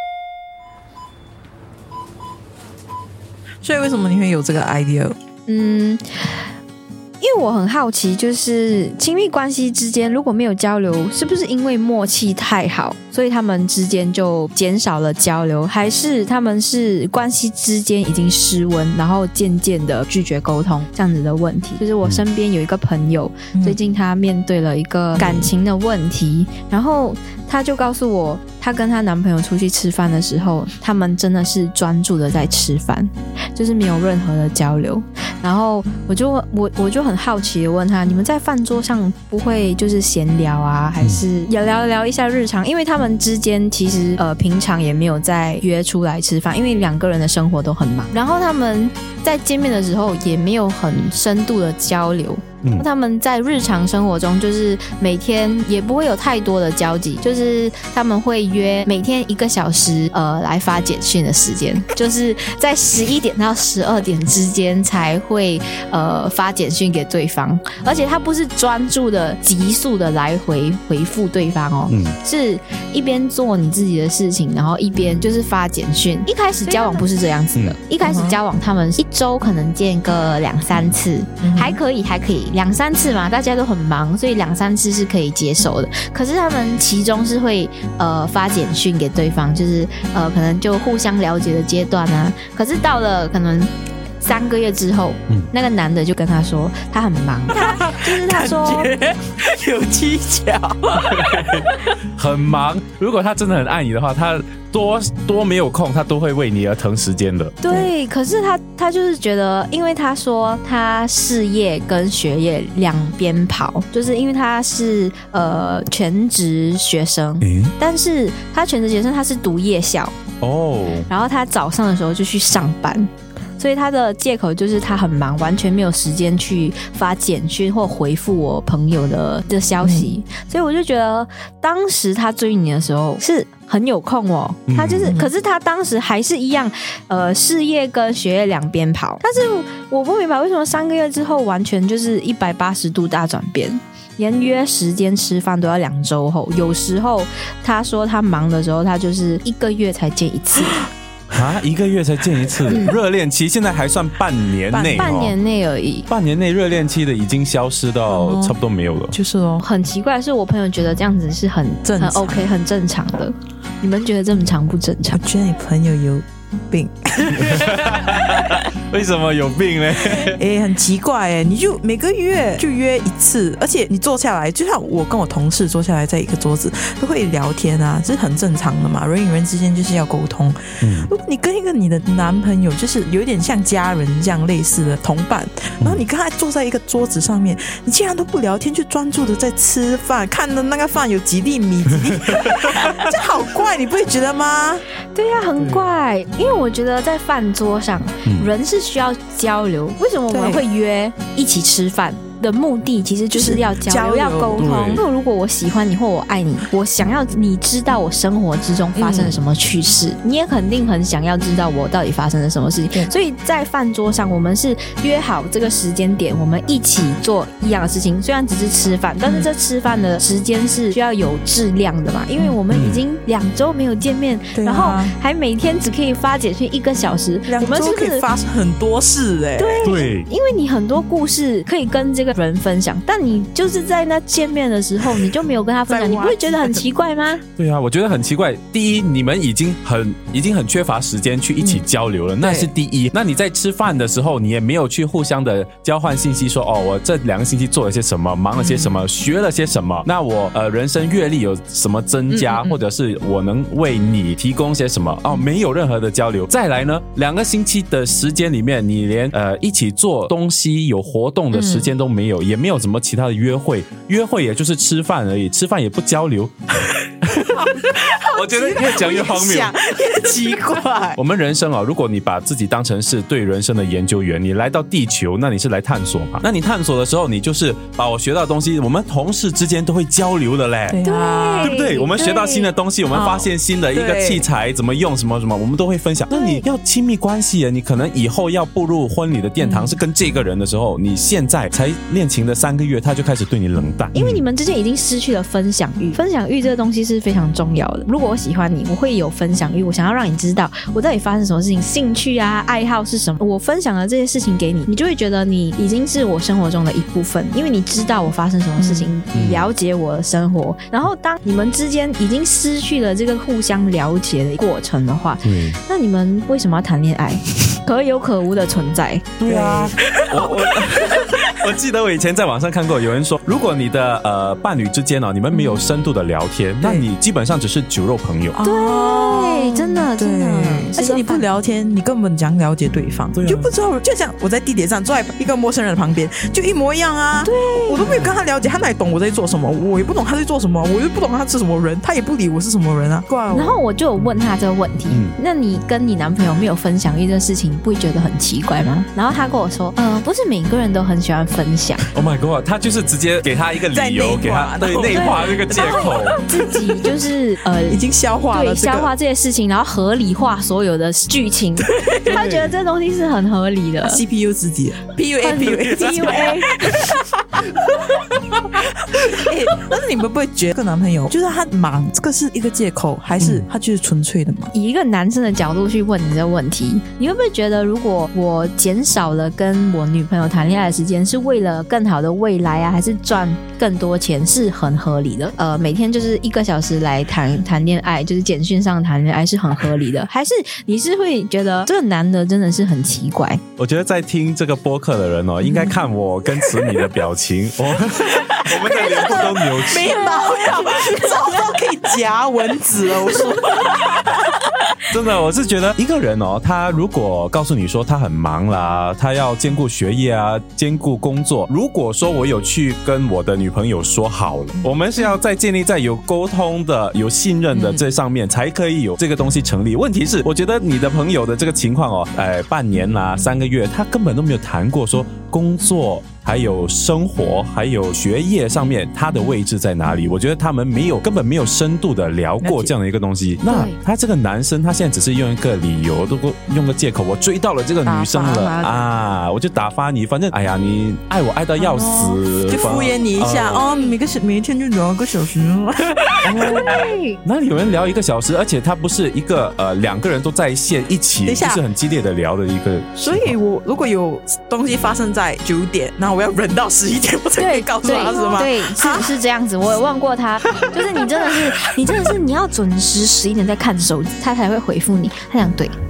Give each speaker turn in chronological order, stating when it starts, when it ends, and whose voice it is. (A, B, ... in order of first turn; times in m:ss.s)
0:03.6-0:05.2 A
0:05.5-0:06.0 B
0:07.2-1:38.9 B
0:23.5-0:23.8 A
0:25.2-0:25.5 A
1:11.9-1:12.2 C
1:16.7-1:17.1 A
1:18.0-1:18.4 A
1:21.4-1:21.8 A
1:37.5-1:41.6 A
1:41.0-1:47.6 C
1:47.6-2:00.1 B
1:57.4-1:57.7 C
2:00.4-2:01.1 C
2:01.1-2:30.9 B
2:09.8-2:10.1 A
2:14.7-2:15.2 C
2:31.3-2:35.4 C
2:32.7-2:33.0 B
2:34.7-2:35.1 A
2:34.9-2:36.1 B
2:36.1-2:39.1 C
2:38.1-2:38.6 A
2:39.1-2:39.6 A
2:39.6-2:45.2 B
2:41.8-2:42.5 A
2:45.1-2:48.2 A
2:47.3-2:50.4 C
2:50.3-3:14.8 A
3:00.8-3:01.1 C
3:15.1-3:48.2 B
3:15.6-3:15.8 C
3:18.2-3:18.5 C
3:20.3-3:20.6 A
3:23.3-3:24.7 A
3:24.6-3:25.0 C
3:29.0-3:29.4 A
3:42.7-3:43.0 C
3:44.5-3:45.1 A
3:47.4-3:49.9 A
3:49.6-3:57.4 B
3:49.8-3:50.3 C
3:55.9-3:56.8 A
3:57.6-4:26.5 C
4:02.4-4:02.7 A
4:08.5-4:09.0 A
4:12.3-4:12.8 A
4:21.5-4:21.9 A
4:27.1-4:29.7 C
4:27.5-4:31.2 A
4:31.2-4:41.0 C
4:40.9-4:41.8 A
4:41.0-4:42.7 B
4:41.6-4:54.4 C
4:43.1-4:44.4 A
4:46.3-4:46.6 B
4:49.6-4:50.0 A
4:54.1-5:19.3 B
5:08.8-5:09.1 A
5:09.3-5:09.7 C
5:15.4-5:15.8 C
5:19.4-5:28.6 C
5:19.4-5:20.6 A
5:26.8-5:27.1 A
5:28.5-5:43.8 A
5:28.6-5:31.4 B
5:33.3-5:33.7 C
5:37.4-5:38.1 B
5:38.0-5:38.3 C
5:43.5-5:52.1 B
5:45.1-5:45.4 C
5:52.1-5:56.4 C
5:53.9-5:57.1 A
5:55.1-6:04.2 B
5:57.9-5:59.1 A
6:01.8-6:02.3 A
6:02.3-6:02.7 C
6:04.0-6:14.7 A
6:05.4-6:06.7 B
6:13.4-6:13.6 C
6:14.7-6:33.6 B
6:33.8-6:40.2 C
6:35.6-6:36.0 A
6:36.6-6:37.0 A
6:38.2-6:44.7 A
6:40.0-6:41.5 B
6:45.1-7:23.8 C
6:57.7-6:58.0 A
7:12.6-7:12.9 A
7:13.6-7:14.0 B
7:18.0-7:19.1 A
7:21.8-7:26.8 A
7:26.4-7:33.5 C
7:26.8-7:27.4 B
7:31.4-7:31.8 A
7:33.2-7:39.3 A
7:37.6-7:45.9 B